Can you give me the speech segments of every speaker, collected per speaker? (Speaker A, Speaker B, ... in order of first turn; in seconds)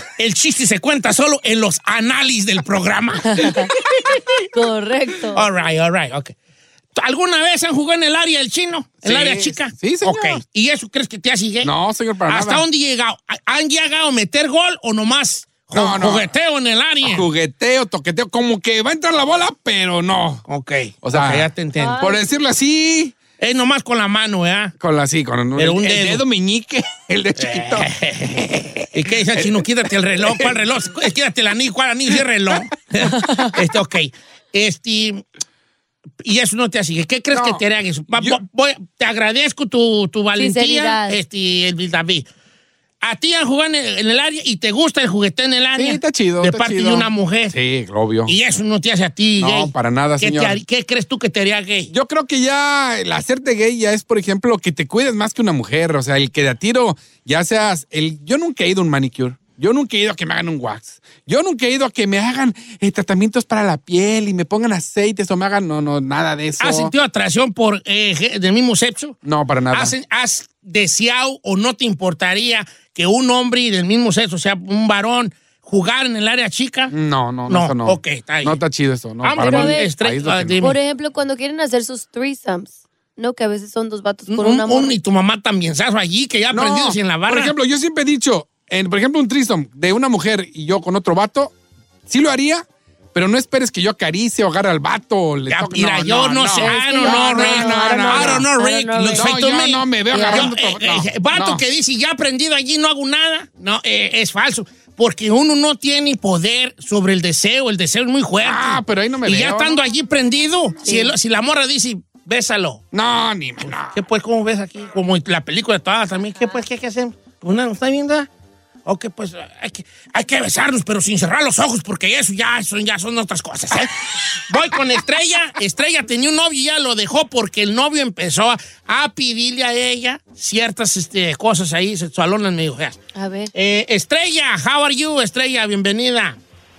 Speaker A: 0.2-4.3, 5.3-6.3, 7.0-11.7, 12.3-17.3, 20.5-22.1, 23.4-24.7, 25.6-26.2, 27.4-35.2, 36.2-42.3, 43.0-47.5, 48.3-51.9, 66.6-69.2, 69.7-76.9, 77.5-78.6, 79.2-80.8, 84.3-87.5, 95.5-112.8, 113.7-118.3, 118.8-133.0, 133.5-136.4
Speaker B: 3.3-3.7, 4.5-5.5, 21.8-22.4, 33.2-33.5, 40.4-41.2, 79.3-79.9, 80.6-85.0, 96.6-99.3, 100.1-100.5, 110.8-111.1, 133.1-133.5
Speaker C: 9.0-10.4, 11.6-12.7, 15.7-16.3, 17.0-20.4, 21.0-23.1, 24.8-29.7, 30.2-30.6, 37.3-37.6, 38.1-38.4, 45.7-48.3, 49.4-50.6, 51.9-66.9, 69.2-69.9, 76.9-80.6, 86.5-91.5, 92.1-92.6, 93.2-98.5, 99.1-101.6, 108.4-109.8, 112.9-114.0